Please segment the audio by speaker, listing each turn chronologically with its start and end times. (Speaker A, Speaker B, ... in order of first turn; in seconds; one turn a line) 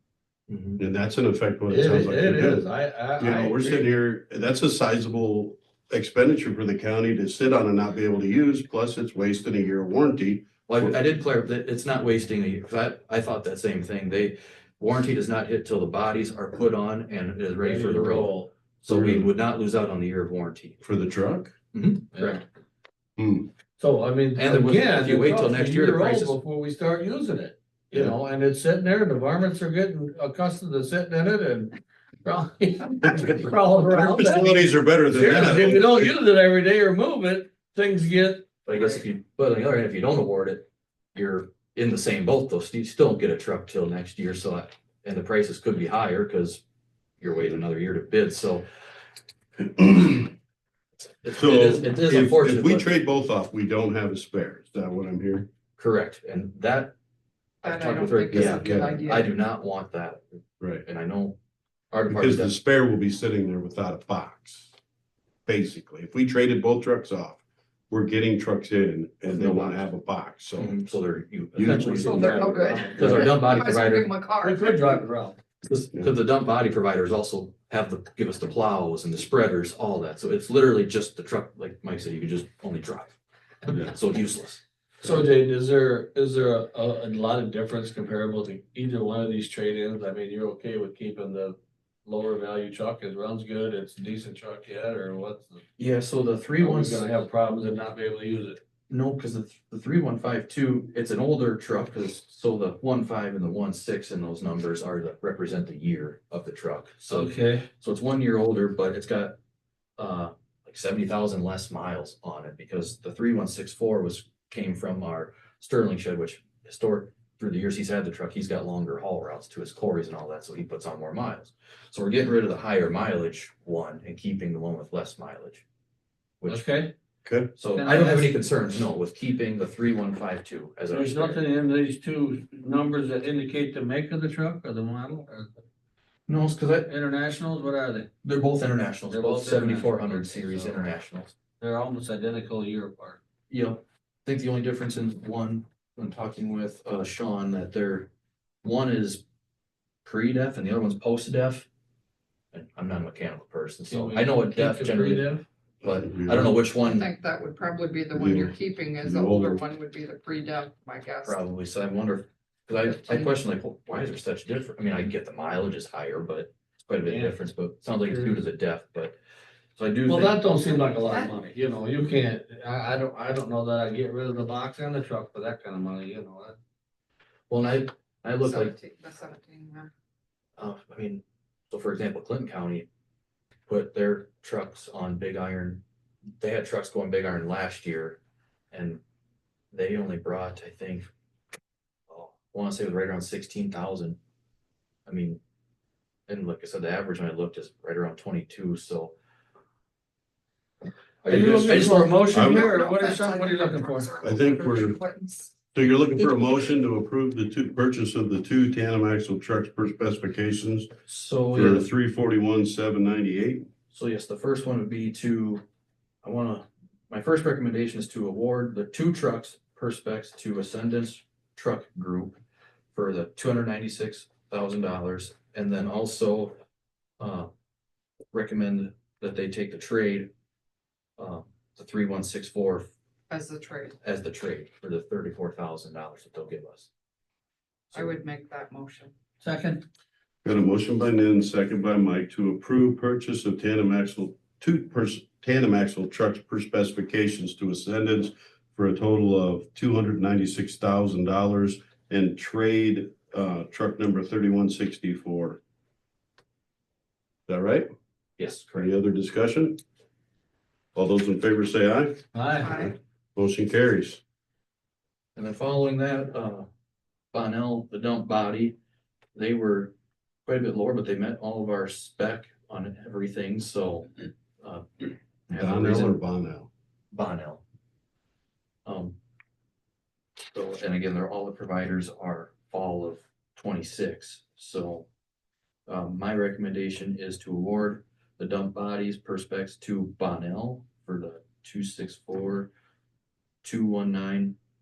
Speaker A: 0.5-0.8
Speaker B: 0.8-2.6
Speaker C: 1.7-3.8
Speaker B: 3.2-10.9
Speaker A: 10.7-20.8
Speaker C: 17.6-18.5
Speaker B: 18.9-19.3
Speaker B: 20.8-21.5
Speaker A: 21.7-22.4
Speaker B: 23.2-23.5
Speaker C: 23.8-38.5
Speaker A: 24.4-26.4
Speaker B: 34.0-36.1
Speaker A: 38.6-46.6
Speaker A: 47.2-48.6
Speaker B: 49.8-50.3
Speaker A: 51.2-52.9
Speaker B: 51.3-55.5
Speaker A: 55.8-56.9
Speaker D: 57.6-59.3
Speaker A: 57.6-61.4
Speaker B: 58.3-59.0
Speaker A: 61.9-62.5
Speaker B: 62.1-64.7
Speaker B: 65.5-70.8
Speaker A: 69.3-69.9
Speaker A: 70.6-74.1
Speaker B: 71.5-72.5
Speaker C: 71.6-73.4
Speaker D: 72.0-74.9
Speaker C: 74.4-75.4
Speaker A: 75.6-83.2
Speaker A: 83.7-84.6
Speaker C: 85.0-95.6
Speaker A: 95.8-97.1
Speaker C: 96.6-98.6
Speaker A: 98.9-109.3
Speaker C: 107.1-107.7
Speaker A: 110.0-125.6
Speaker C: 126.5-126.9
Speaker B: 127.2-127.5
Speaker A: 127.5-131.4
Speaker C: 127.7-128.3
Speaker C: 130.9-135.5
Speaker A: 136.3-136.9
Speaker C: 136.9-138.1
Speaker A: 138.2-141.3
Speaker C: 139.1-140.8
Speaker C: 141.6-143.2
Speaker A: 143.5-148.1
Speaker A: 148.6-149.2
Speaker A: 150.0-151.7
Speaker A: 152.5-155.3
Speaker C: 153.9-155.4
Speaker A: 155.8-157.1
Speaker B: 155.8-156.6
Speaker D: 156.8-161.4
Speaker B: 158.2-159.6
Speaker A: 161.2-169.1
Speaker D: 162.9-163.3
Speaker C: 167.0-167.3
Speaker C: 168.1-168.4
Speaker A: 169.8-170.4
Speaker C: 170.1-176.6
Speaker D: 170.9-171.3
Speaker A: 177.5-178.8
Speaker D: 178.4-179.9
Speaker A: 180.6-182.9
Speaker A: 183.7-185.8
Speaker A: 186.4-188.2
Speaker A: 188.7-189.0
Speaker A: 189.7-191.1
Speaker A: 192.1-194.2
Speaker A: 195.1-195.4
Speaker A: 196.3-199.1
Speaker A: 201.2-202.5
Speaker C: 201.2-204.1
Speaker D: 202.3-205.5
Speaker B: 202.3-202.7
Speaker B: 204.2-205.0
Speaker B: 205.7-210.9
Speaker A: 211.1-211.9
Speaker B: 211.5-213.7
Speaker A: 213.9-215.6
Speaker A: 216.2-222.4
Speaker A: 222.9-226.6
Speaker A: 227.2-227.5
Speaker A: 228.3-230.3
Speaker A: 231.2-232.9
Speaker D: 233.3-233.9
Speaker A: 234.0-236.9
Speaker D: 237.9-239.1
Speaker C: 239.4-239.8
Speaker B: 240.4-255.6
Speaker B: 257.5-257.9
Speaker A: 258.4-258.9
Speaker B: 258.7-259.8
Speaker B: 260.9-264.2
Speaker C: 262.3-262.7
Speaker D: 262.6-262.9
Speaker A: 265.4-266.7
Speaker A: 267.3-268.7
Speaker A: 269.3-269.9
Speaker A: 270.4-276.2
Speaker B: 275.5-276.7
Speaker A: 277.1-277.6
Speaker A: 278.9-279.1
Speaker A: 280.5-285.1
Speaker A: 285.9-292.7
Speaker A: 293.6-294.6